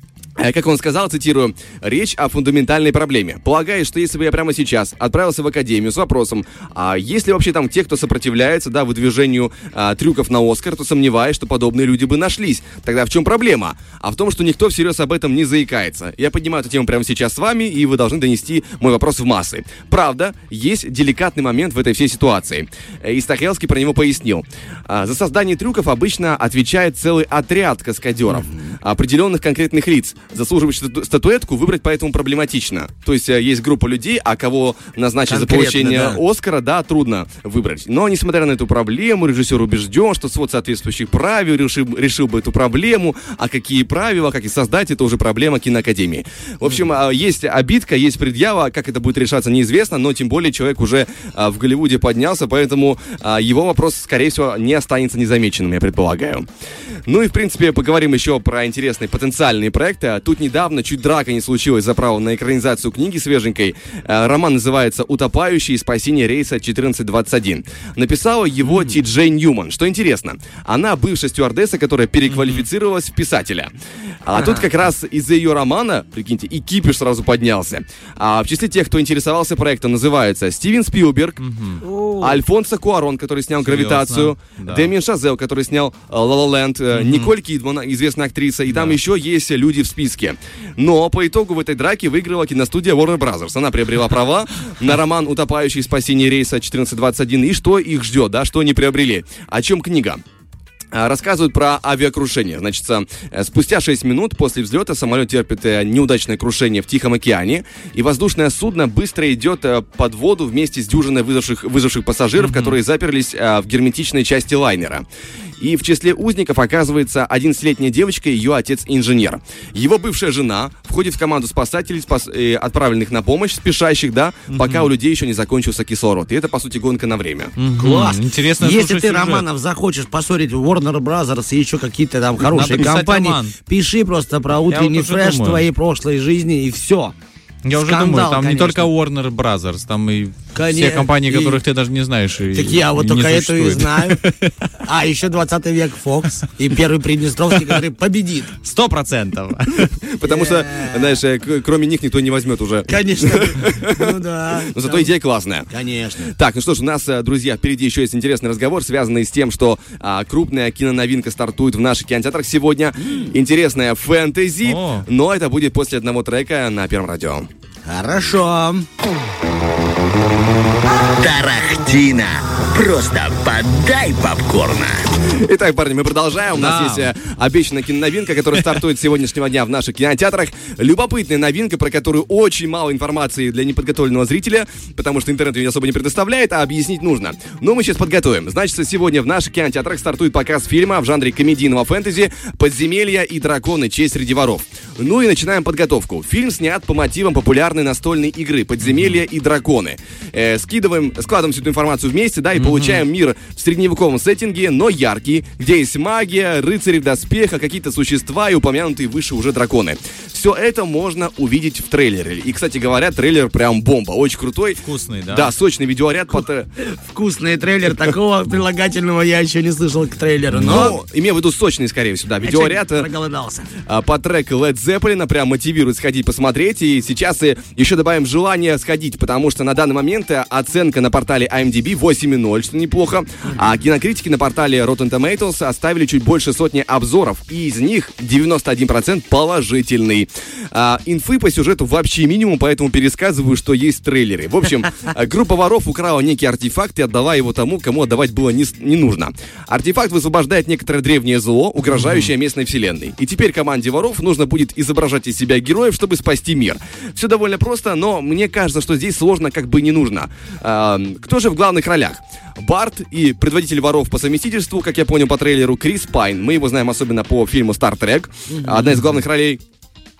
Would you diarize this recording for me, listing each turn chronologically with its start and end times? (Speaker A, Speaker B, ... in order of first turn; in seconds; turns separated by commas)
Speaker A: 0.4-56.5, Speaker B: 35.3-36.2, Speaker A: 57.1-73.7, Speaker C: 72.3-72.6, Speaker A: 74.2-81.4, Speaker B: 74.4-74.6, Speaker C: 81.4-81.8, Speaker B: 81.8-82.4, Speaker A: 82.2-100.2, Speaker C: 83.6-84.9, Speaker C: 86.9-87.3, Speaker A: 100.9-115.0, Speaker C: 112.4-112.7, Speaker A: 115.6-127.5, Speaker C: 124.5-124.8, Speaker C: 127.6-129.4, Speaker B: 127.8-137.1, Speaker C: 132.4-133.6, Speaker C: 134.7-135.6, Speaker C: 137.6-144.6, Speaker B: 137.7-138.9, Speaker B: 140.5-141.6, Speaker B: 142.5-144.2, Speaker B: 144.8-148.5, Speaker C: 148.6-149.9, Speaker A: 149.7-154.1, Speaker B: 150.2-151.2, Speaker B: 152.9-155.1, Speaker A: 154.7-155.7, Speaker B: 155.7-156.3, Speaker A: 156.3-167.5, Speaker C: 164.7-165.0, Speaker B: 167.8-168.8, Speaker B: 171.1-175.1, Speaker A: 175.4-216.7, Speaker C: 176.6-177.1, Speaker C: 198.8-199.2, Speaker C: 202.6-203.0, Speaker C: 214.8-215.5, Speaker B: 216.8-221.0, Speaker A: 220.6-223.1, Speaker B: 222.4-223.7, Speaker A: 223.8-269.6